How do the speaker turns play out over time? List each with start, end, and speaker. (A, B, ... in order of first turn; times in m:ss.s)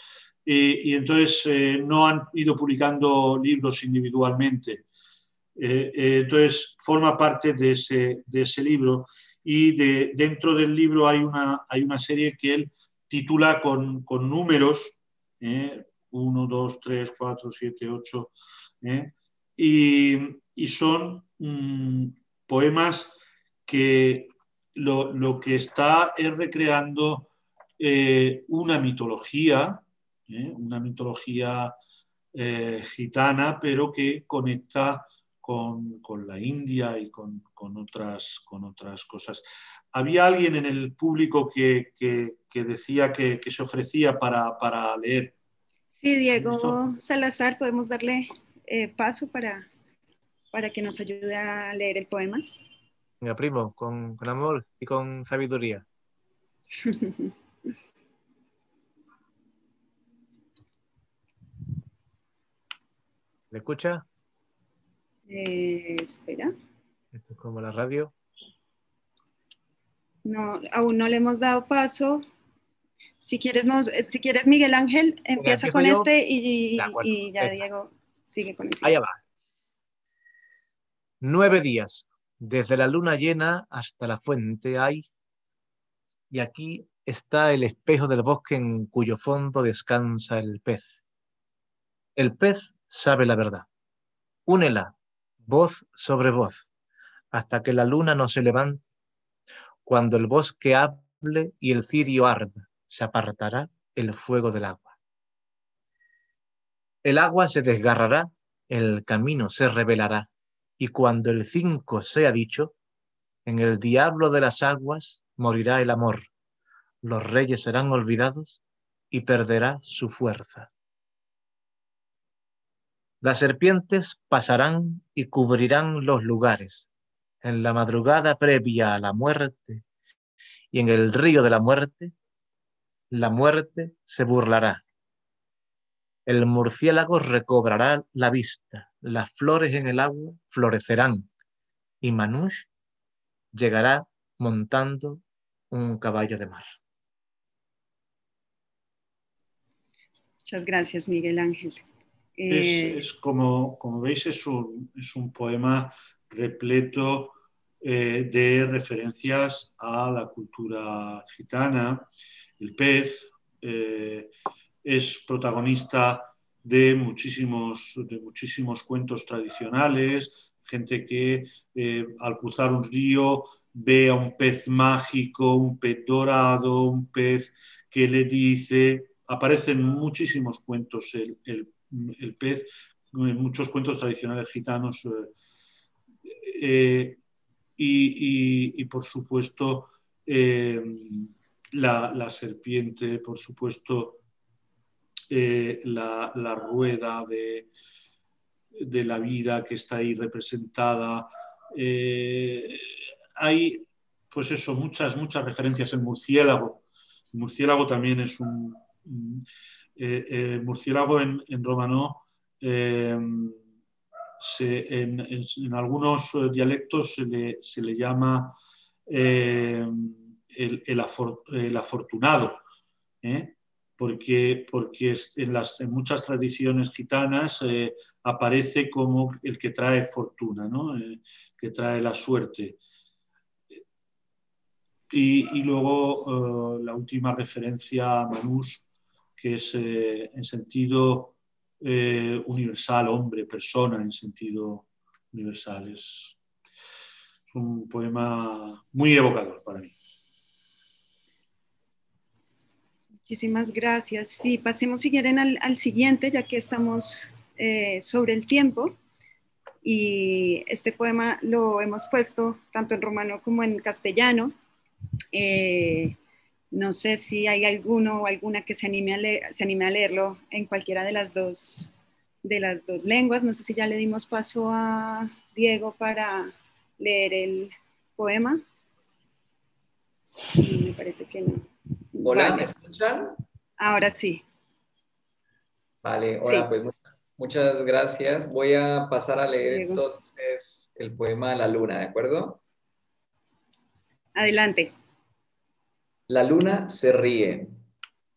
0:00.5-0:04.8 A
0:05.6-0:31.7 A
0:32.3-0:45.3 A
0:46.0-0:49.7 B
0:46.4-0:46.8 A
0:50.5-0:52.4 B
0:53.2-0:55.8 C
0:56.8-0:57.3 B
1:03.5-1:04.0 C
1:05.3-1:06.5 B
1:07.1-1:08.1 C
1:10.2-1:12.2 B
1:13.2-1:19.0 B
1:15.4-1:16.1 C
1:16.8-1:17.6 C
1:18.8-1:19.2 C
1:21.2-1:25.1 C
1:26.3-1:31.0 C
1:32.2-1:33.7 C
1:34.5-1:36.7 C
1:37.3-1:38.8 C
1:39.8-1:45.0 C
1:47.0-1:52.7 C
1:53.5-1:56.3 C
1:57.0-1:58.6 C
1:59.1-2:00.7 C
2:03.2-2:06.9 C
2:07.4-2:09.8 C
2:10.7-2:12.1 C
2:13.1-2:14.8 C
2:16.3-2:21.3 C
2:22.0-2:22.7 C
2:23.5-2:26.8 C
2:30.5-2:31.8 B
2:32.4-2:33.0 B
2:32.5-2:42.1 A
2:42.6-2:44.3 A
2:44.8-3:05.3 A
3:06.3-3:07.2 A
3:07.8-3:14.2 A
3:15.3-3:17.7 A
3:18.7-3:29.4 A
3:30.0-3:33.6 A
3:34.4-3:42.6 A
3:43.2-3:52.8 A
3:55.1-3:58.8 A
3:59.4-4:06.4 A
4:07.5-4:09.9 A
4:13.3-4:19.0 B
4:19.8-4:24.5 B
4:25.3-4:26.2 B
4:26.7-4:31.9 B
4:32.4-4:38.6 B
4:40.6-4:42.7 B
4:42.2-4:43.4 D
4:43.8-4:44.4 B
4:46.0-4:52.6 D
4:49.7-4:50.0 B
4:54.4-4:54.9 B
4:56.3-4:57.7 D